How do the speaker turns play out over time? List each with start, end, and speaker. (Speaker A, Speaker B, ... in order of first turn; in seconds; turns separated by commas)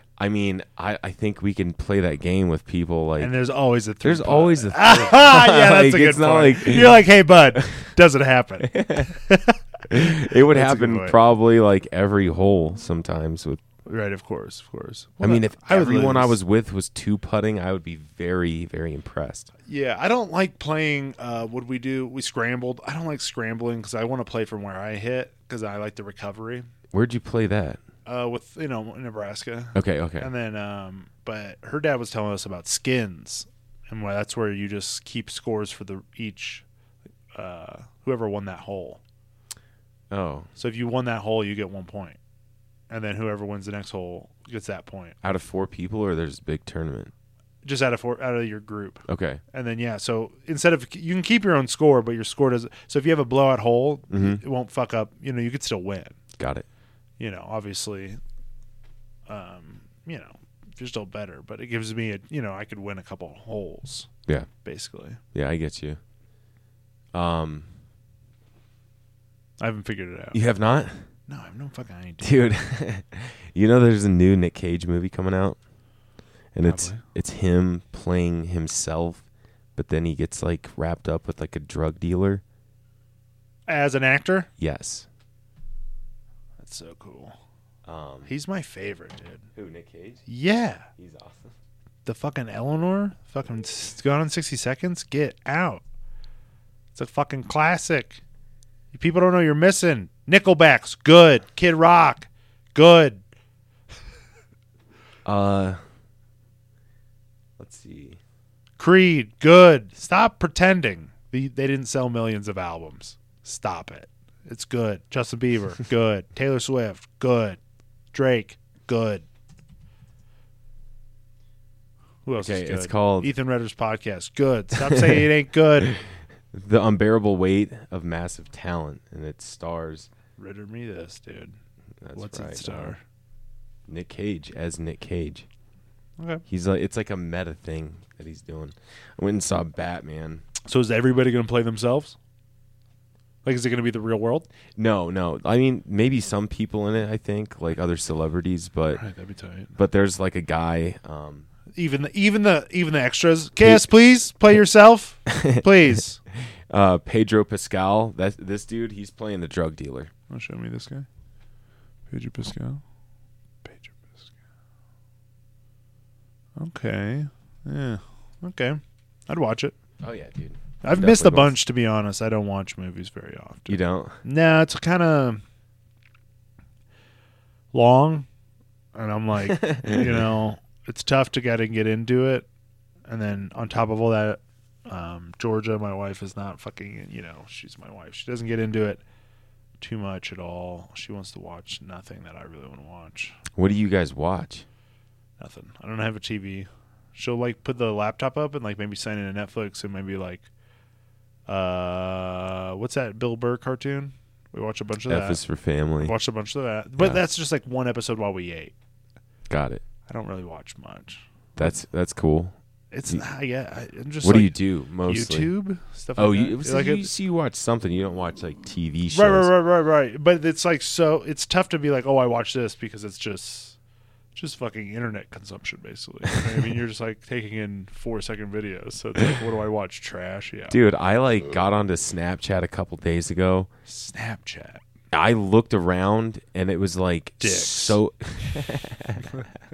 Speaker A: 0.2-3.4, Speaker B: 3.2-11.2, Speaker A: 4.0-7.9, Speaker A: 8.6-9.2, Speaker A: 9.9-13.6, Speaker B: 13.8-16.4, Speaker A: 15.2-19.5, Speaker B: 19.7-26.7, Speaker A: 26.9-27.8, Speaker B: 28.1-36.6, Speaker A: 29.8-30.3, Speaker B: 37.3-39.0, Speaker A: 40.1-40.5, Speaker B: 40.6-42.2, Speaker B: 42.9-45.2, Speaker A: 45.2-47.1, Speaker B: 47.6-56.2, Speaker A: 49.1-49.4, Speaker A: 54.1-54.4, Speaker A: 56.4-56.7, Speaker B: 57.2-58.2, Speaker B: 59.3-64.1, Speaker B: 64.6-65.2, Speaker A: 65.3-66.0, Speaker A: 67.1-67.7, Speaker B: 69.6-70.4, Speaker A: 70.3-71.1, Speaker B: 71.3-72.5, Speaker A: 72.2-75.6, Speaker A: 76.5-79.2, Speaker B: 76.7-77.0, Speaker A: 79.8-82.4, Speaker B: 83.7-84.5, Speaker A: 84.6-85.1, Speaker B: 86.6-87.4, Speaker A: 87.9-88.3, Speaker B: 88.3-89.5, Speaker A: 89.5-90.2, Speaker B: 90.3-90.9, Speaker A: 91.0-91.5, Speaker B: 92.0-95.8, Speaker B: 97.0-98.2, Speaker B: 98.9-103.2, Speaker A: 105.3-105.8, Speaker A: 107.6-108.2, Speaker B: 108.8-117.6, Speaker B: 118.1-119.2, Speaker B: 122.2-125.9, Speaker A: 122.4-123.3, Speaker A: 126.5-130.1, Speaker B: 130.4-131.6, Speaker A: 132.0-132.9, Speaker B: 132.2-133.0, Speaker A: 133.9-135.5, Speaker B: 136.2-136.4, Speaker A: 136.5-140.4, Speaker B: 140.7-142.2, Speaker B: 143.4-144.5, Speaker A: 144.8-149.0, Speaker B: 148.9-149.7, Speaker A: 149.8-151.5, Speaker B: 151.8-156.2, Speaker A: 155.3-155.7, Speaker A: 156.4-160.1, Speaker B: 160.3-161.1, Speaker B: 162.1-162.8, Speaker B: 163.6-164.3, Speaker B: 166.6-169.8, Speaker A: 170.0-171.6, Speaker B: 170.8-175.4, Speaker A: 173.7-174.2, Speaker B: 177.7-178.3, Speaker B: 178.9-182.5, Speaker A: 179.5-180.2, Speaker B: 183.1-189.0, Speaker B: 189.8-193.4, Speaker A: 193.6-194.7, Speaker B: 195.4-200.5, Speaker B: 201.5-205.4, Speaker A: 205.1-206.2, Speaker B: 206.0-208.7, Speaker A: 209.5-209.8, Speaker B: 210.1-211.8, Speaker A: 211.6-212.6, Speaker B: 212.9-217.1, Speaker A: 214.2-215.5, Speaker A: 216.2-219.5, Speaker B: 219.1-223.8, Speaker B: 224.3-230.8, Speaker A: 230.7-233.7, Speaker B: 233.9-234.8, Speaker A: 235.1-239.4, Speaker B: 237.4-238.0